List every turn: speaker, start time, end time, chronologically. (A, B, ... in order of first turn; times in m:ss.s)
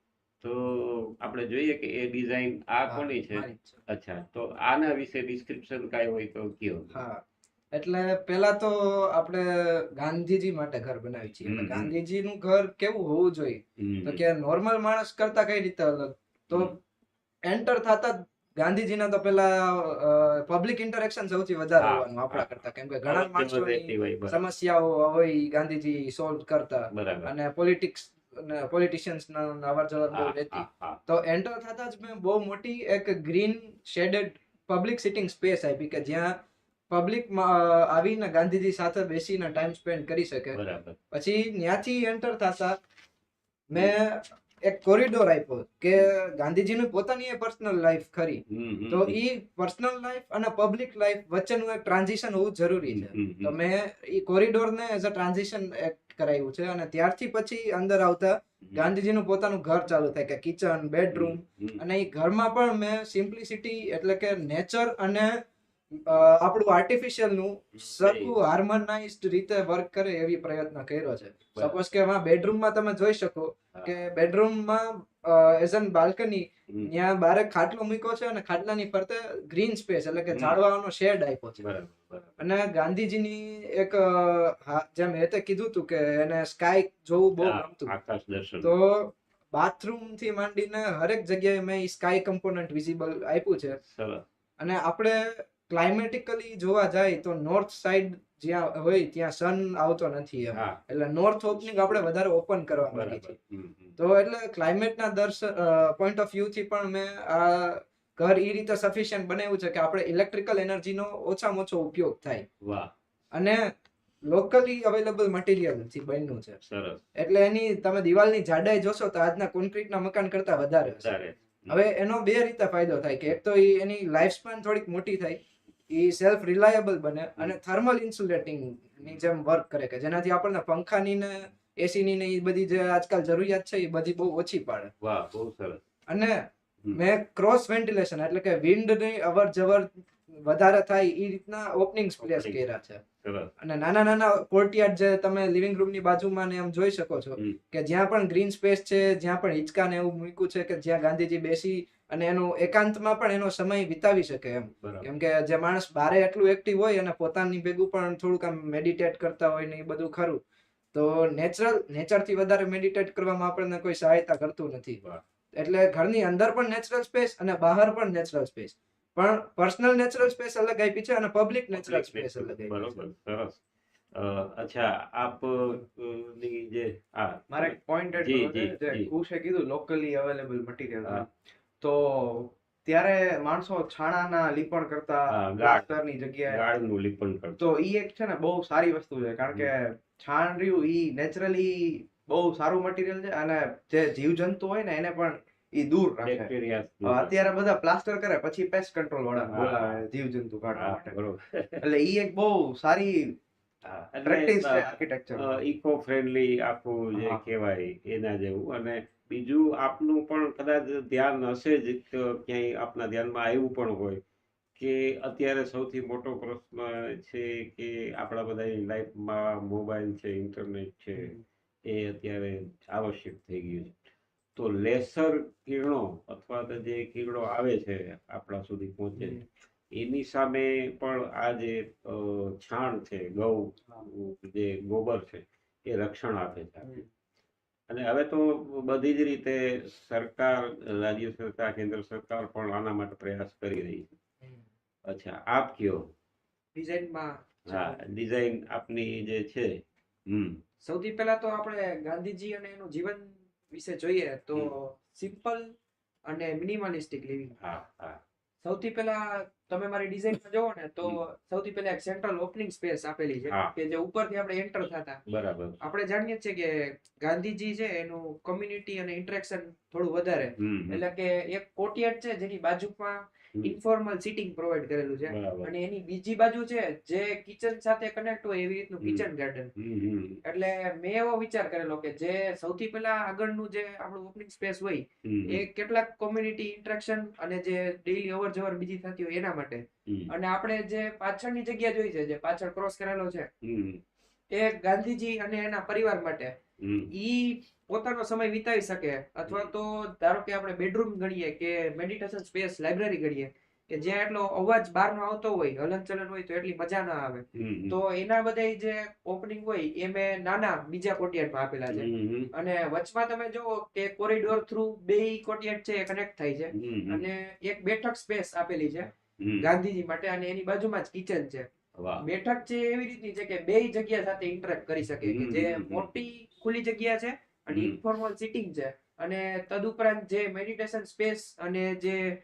0:00.4-0:07.0 A
0:02.9-0:03.8 B
0:06.9-0:07.2 B
0:07.7-0:16.7 B
0:11.4-0:11.9 A
0:13.8-0:14.2 A
0:16.5-0:16.8 A
0:17.5-0:36.4 B
0:21.8-0:22.5 A
0:23.1-0:24.4 A
0:26.9-0:27.3 A
0:30.1-0:31.0 A
0:36.9-0:40.6 B
0:40.5-0:41.0 A
0:41.1-0:42.8 B
0:43.7-1:05.4 B
0:48.5-0:49.2 A
0:52.9-0:53.6 A
1:01.1-1:01.8 A
1:06.0-1:21.6 B
1:07.8-1:08.4 A
1:13.7-1:14.0 A
1:20.3-1:20.6 A
1:21.6-1:22.4 A
1:22.4-1:27.9 B
1:27.4-1:28.7 A
1:28.6-1:33.8 B
1:33.9-1:34.2 A
1:34.6-1:43.3 B
1:40.5-1:40.8 A
1:41.6-1:42.0 A
1:42.9-1:44.0 A
1:44.0-1:52.5 B
1:52.6-1:52.9 A
1:53.3-1:53.6 B
1:54.2-1:56.6 B
1:56.6-1:57.0 A
1:57.2-2:01.1 B
2:01.0-2:01.8 A
2:01.7-2:14.9 B
2:15.0-2:15.8 A
2:16.1-2:23.0 B
2:22.2-2:22.6 A
2:23.2-2:23.5 A
2:23.6-2:40.4 B
2:34.8-2:35.1 A
2:40.9-2:45.0 B
2:45.6-2:53.0 B
2:51.7-2:53.6 A
2:54.1-2:59.1 A
2:57.5-3:01.3 C
3:01.8-3:06.6 C
3:05.3-3:05.9 A
3:06.5-3:07.6 A
3:07.6-3:16.5 C
3:16.2-3:17.4 A
3:17.0-3:21.1 C
3:19.5-3:20.0 A
3:20.7-3:21.8 A
3:21.8-3:23.3 C
3:23.8-3:34.2 A
3:24.2-3:25.6 C
3:27.1-3:27.4 C
3:34.8-3:44.0 A
3:44.6-3:49.4 A
3:49.2-3:49.4 D
3:49.9-3:57.0 A
3:57.9-4:04.1 A
4:05.0-4:06.1 A
4:06.7-4:08.0 D
4:07.7-4:10.6 A
4:10.8-4:15.7 D
4:16.3-4:17.6 D
4:17.6-4:18.2 A
4:18.6-4:25.2 D
4:25.3-4:25.8 A
4:25.8-4:39.7 D
4:30.6-4:31.0 A
4:35.3-4:35.7 A
4:39.8-4:40.4 A
4:40.4-4:53.5 D
4:45.2-4:45.6 A
4:53.6-4:54.0 A
4:54.5-4:56.5 D
4:56.8-4:57.1 A
4:57.1-5:21.7 D
4:59.5-4:59.7 A
5:07.5-5:08.0 A
5:11.9-5:12.5 A
5:16.7-5:17.2 A
5:19.4-5:19.7 A
5:22.0-5:22.2 A
5:22.2-5:32.2 D
5:25.2-5:26.1 A
5:27.7-5:28.0 A